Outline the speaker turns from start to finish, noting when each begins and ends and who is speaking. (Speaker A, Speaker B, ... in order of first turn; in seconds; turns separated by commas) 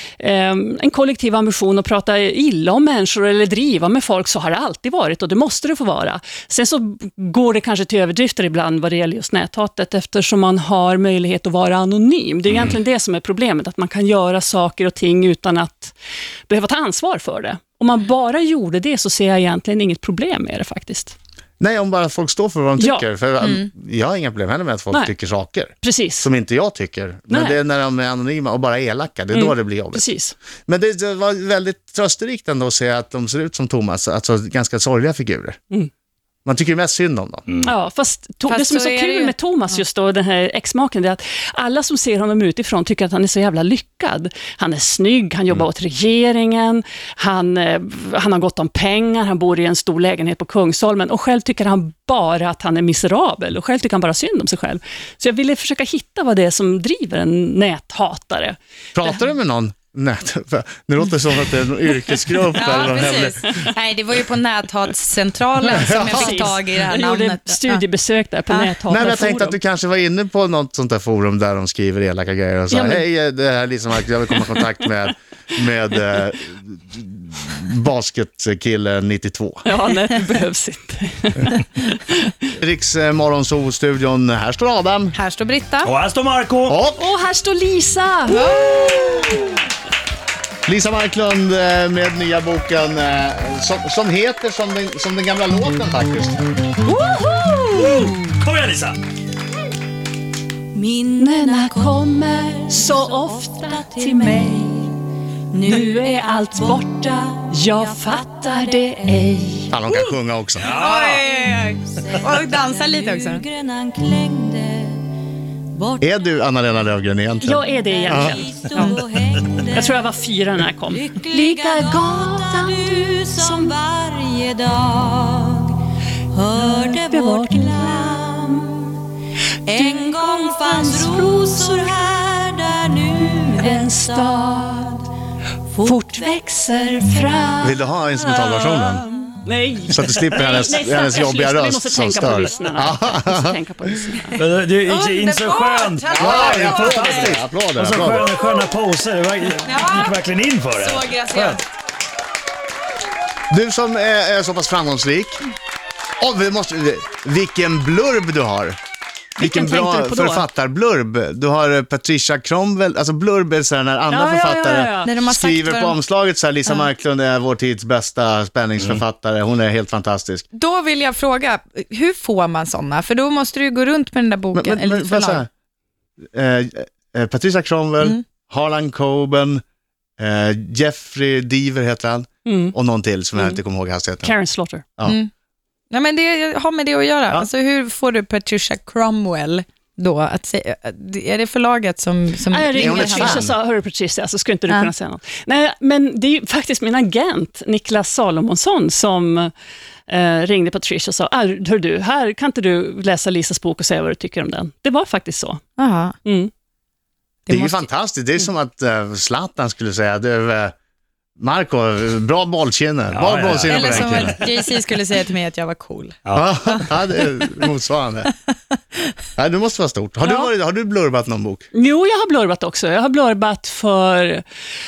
Speaker A: 0.2-15.9, Speaker B: 12.5-12.8, Speaker A: 16.5-21.1, Speaker C: 21.6-30.1, Speaker A: 22.8-23.1, Speaker D: 23.4-23.7, Speaker A: 25.8-26.3, Speaker A: 27.3-27.6, Speaker A: 29.3-30.4, Speaker C: 30.7-35.6, Speaker C: 36.5-37.5, Speaker A: 37.6-59.1, Speaker D: 38.5-39.8, Speaker C: 59.0-63.5, Speaker D: 62.5-67.8, Speaker A: 65.7-69.6, Speaker C: 65.8-66.5, Speaker C: 68.9-79.6, Speaker A: 72.7-73.0, Speaker A: 79.7-82.3, Speaker C: 82.6-85.2, Speaker D: 85.2-85.9, Speaker B: 85.8-86.8, Speaker C: 86.7-87.0, Speaker A: 87.0-89.5, Speaker D: 88.3-89.5, Speaker C: 90.7-96.5, Speaker A: 96.8-98.2, Speaker B: 97.8-99.0, Speaker E: 100.7-104.9, Speaker A: 101.2-104.9, Speaker E: 105.5-109.4, Speaker A: 105.6-110.0, Speaker C: 109.7-110.7, Speaker B: 110.6-111.2, Speaker D: 110.7-113.4, Speaker E: 111.0-115.1, Speaker E: 115.7-116.1, Speaker C: 116.0-118.4, Speaker A: 117.4-119.0, Speaker E: 117.6-120.1, Speaker A: 119.7-123.7, Speaker E: 120.9-125.8, Speaker E: 126.3-129.0, Speaker A: 126.6-128.1, Speaker E: 129.7-135.0, Speaker A: 129.7-131.9, Speaker A: 133.6-134.9, Speaker E: 135.7-136.4, Speaker A: 135.8-137.8, Speaker C: 137.6-139.1, Speaker A: 138.4-144.4, Speaker C: 139.9-143.6, Speaker B: 144.3-151.6, Speaker D: 144.8-147.4, Speaker C: 146.2-148.3, Speaker D: 149.6-150.2, Speaker D: 150.8-151.7, Speaker C: 153.5-155.4, Speaker C: 156.2-158.8, Speaker A: 159.4-160.4, Speaker C: 159.4-170.4, Speaker A: 164.1-165.1, Speaker D: 165.0-166.0, Speaker D: 170.5-175.4, Speaker C: 174.5-175.5, Speaker C: 176.3-179.6, Speaker C: 180.2-184.3, Speaker A: 182.5-182.8, Speaker A: 184.2-184.9, Speaker D: 185.0-185.3, Speaker D: 185.9-193.5, Speaker A: 192.5-199.5, Speaker C: 192.8-193.5, Speaker A: 200.1-205.6, Speaker D: 205.8-206.2, Speaker A: 206.2-206.5, Speaker D: 207.5-207.9, Speaker C: 207.5-210.7, Speaker C: 211.4-214.4, Speaker B: 213.1-214.4, Speaker D: 213.7-216.2, Speaker C: 216.3-218.3, Speaker C: 219.4-221.7, Speaker A: 220.2-220.5, Speaker A: 221.7-224.4